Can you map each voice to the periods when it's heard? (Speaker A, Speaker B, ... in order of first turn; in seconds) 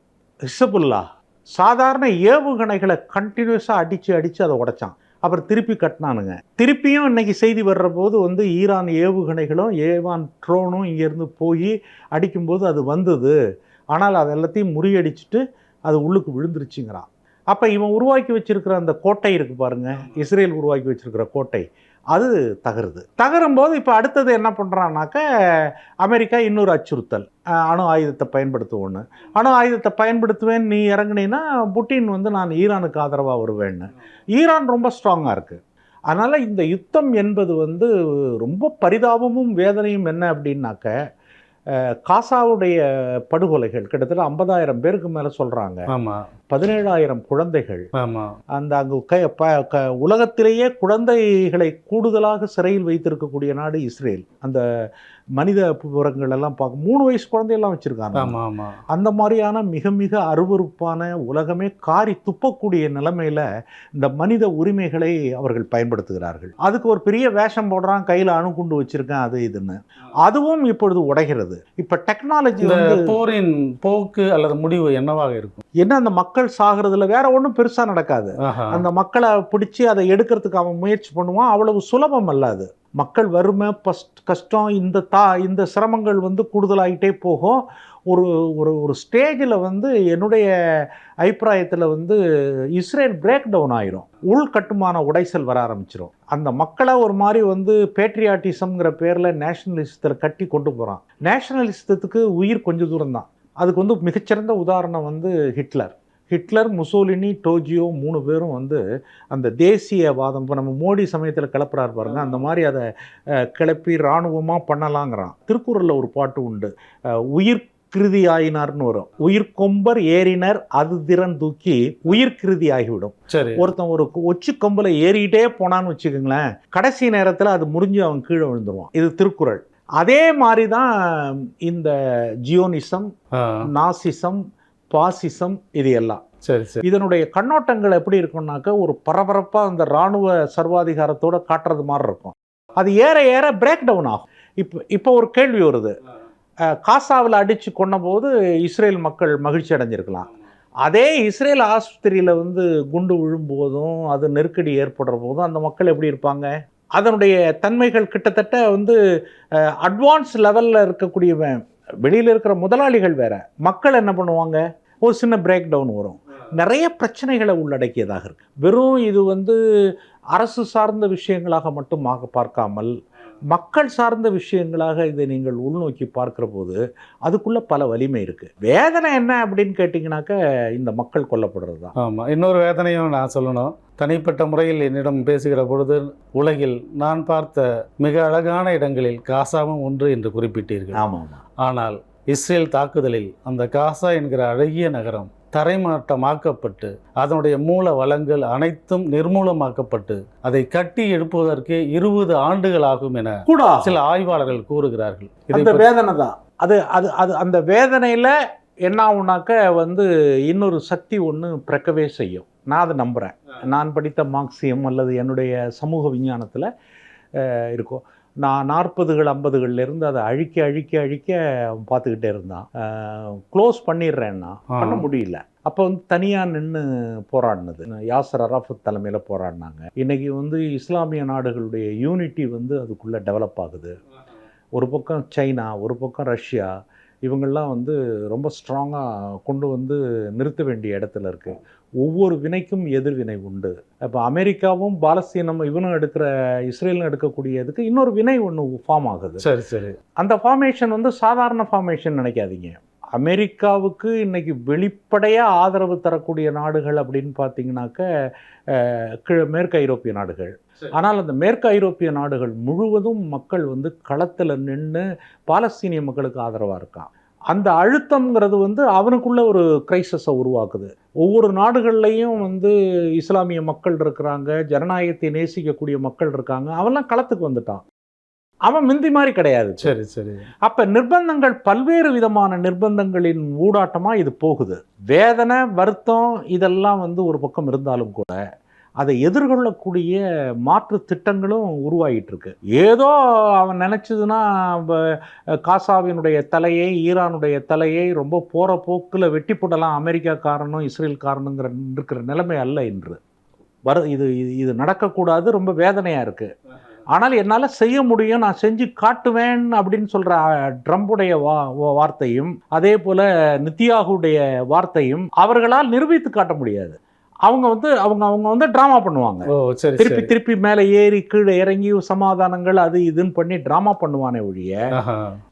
Speaker A: 0.5-1.0, 1.6-13.3, 13.9-37.9, 38.4-41.0, 41.8-45.9, 46.5-47.9, 48.6-54.6, 55.4-58.4, 58.9-73.1, 75.8-92.2, 92.8-108.8, 109.3-112.9, 113.4-116.7, 117.3-131.9, 132.5-133.1, 133.7-134.4, 134.9-136.2, 136.8-145.9, 146.7-150.3, 150.8-159.0, 159.8-169.6, 170.4-172.9, 173.5-181.9, 190.9-191.4, 203.5-203.9, 205.5-208.3, 208.9-216.7, 217.4-233.9, 234.8-236.7, 237.2-249.4, 250.2-258.1, 258.7-277.9, 278.7-279.9, 280.7-288.4, 289.0-303.2, 303.9-306.5, 307.1-324.8
Speaker B: 45.9-46.2, 48.0-48.3, 58.1-58.8, 72.6-75.6, 78.5-78.8, 123.3-123.6, 136.4-136.8, 182.0-191.0, 191.6-205.9, 224.8-225.1, 249.4-250.0, 279.8-280.4, 319.6-320.3, 324.9-325.4